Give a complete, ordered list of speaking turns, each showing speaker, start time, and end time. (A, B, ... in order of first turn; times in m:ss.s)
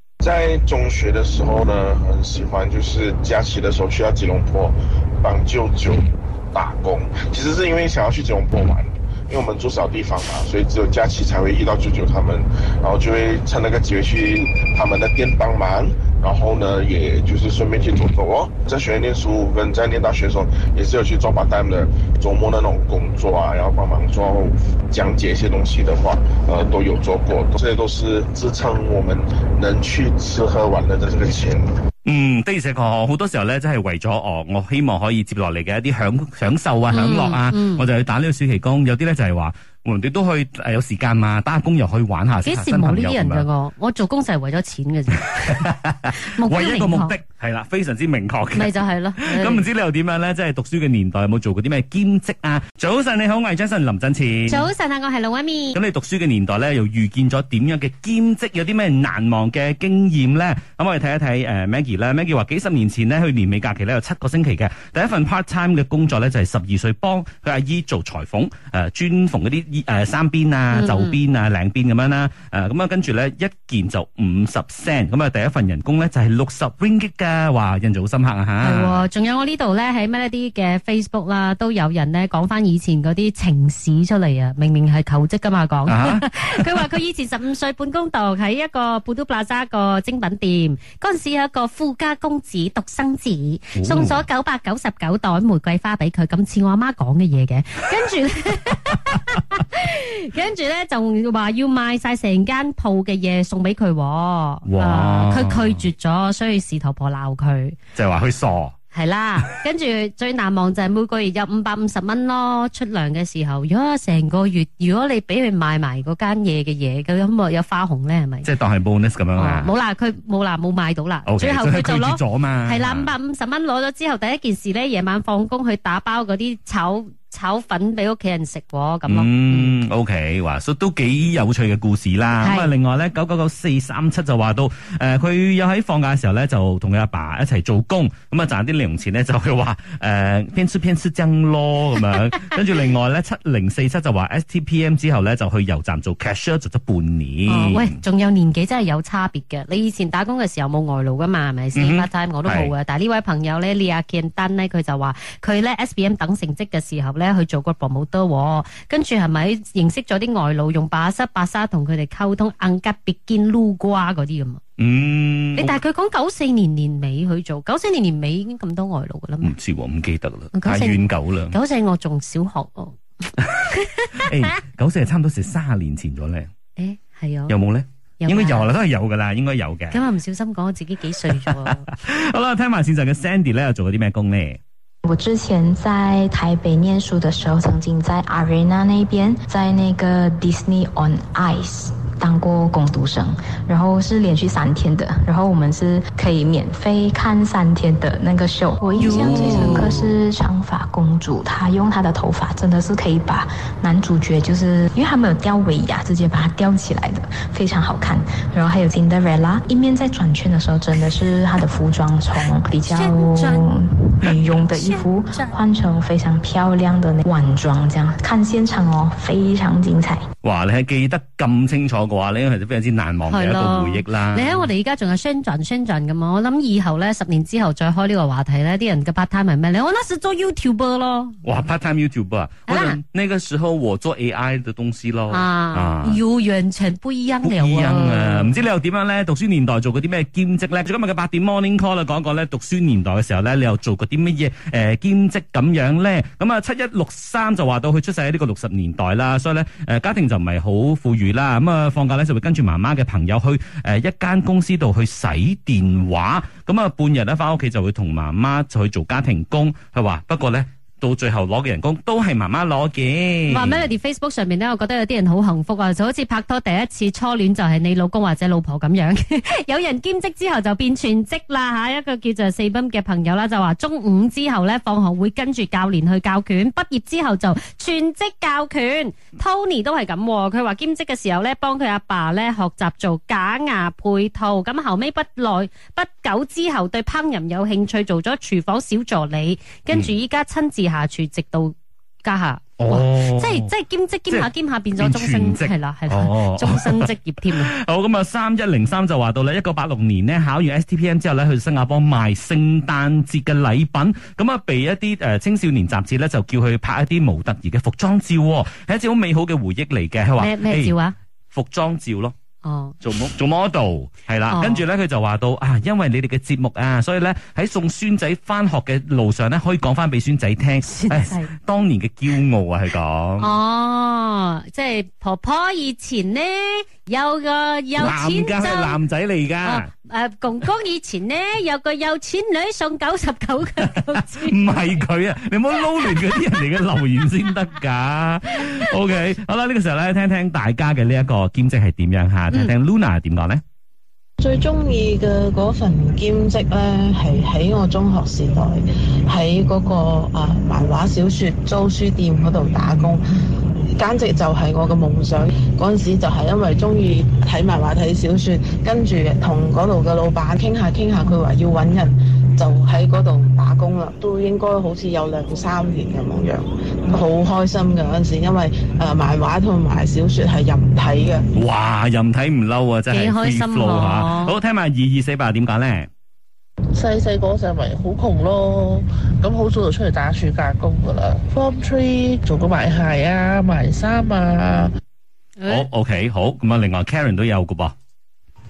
0:00.2-0:31.7 A
0:32.0-0:43.5 B
0:36.9-0:37.9 C
0:42.4-0:47.2 C
0:45.4-0:54.7 B
0:48.5-0:49.7 C
0:54.5-0:55.8 C
0:55.8-1:19.1 B
1:10.7-1:11.2 C
1:18.6-1:47.8 C
1:25.9-1:26.9 B
1:33.8-1:34.2 B
1:44.7-1:45.9 B
1:48.0-1:48.8 B
1:48.9-1:58.5 C
1:58.4-1:59.7 B
1:59.4-2:09.8 C
2:01.3-2:03.1 B
2:09.1-2:28.0 B
2:12.4-2:12.7 C
2:27.5-2:44.6 C
2:31.8-2:32.7 B
2:44.8-2:45.8 B
2:45.6-2:49.5 C
2:49.4-2:51.6 B
2:50.5-2:53.0 C
2:53.7-2:54.5 C
2:54.2-2:56.5 B
2:56.8-2:57.6 C
2:57.5-3:00.0 B
2:58.2-2:58.7 C
2:59.9-3:01.9 C
3:01.4-3:04.6 B
3:05.0-3:40.2 D
3:19.0-3:20.2 C
3:32.8-3:35.5 C
3:40.4-3:44.5 B
3:43.3-3:51.4 C
3:51.4-3:56.2 B
3:52.7-3:53.0 C
3:55.3-3:58.6 C
3:57.4-4:23.9 B
4:23.5-4:57.7 C
4:52.8-4:53.7 B
4:54.3-5:11.0 B
5:10.4-5:11.2 C
5:11.5-5:12.3 B
5:12.6-5:13.0 C
5:13.0-5:23.5 B
5:14.5-5:14.8 C
5:20.9-5:21.5 C
5:23.4-5:29.0 C
5:28.0-5:29.9 B
5:29.6-5:35.0 C
5:33.8-5:43.6 B
5:35.8-5:36.5 C
5:44.4-5:53.2 E
5:54.0-6:11.5 E
6:11.5-6:16.1 B
6:13.1-6:14.6 C
6:16.9-6:24.9 F
6:25.6-6:25.9 C
6:25.7-6:27.9 B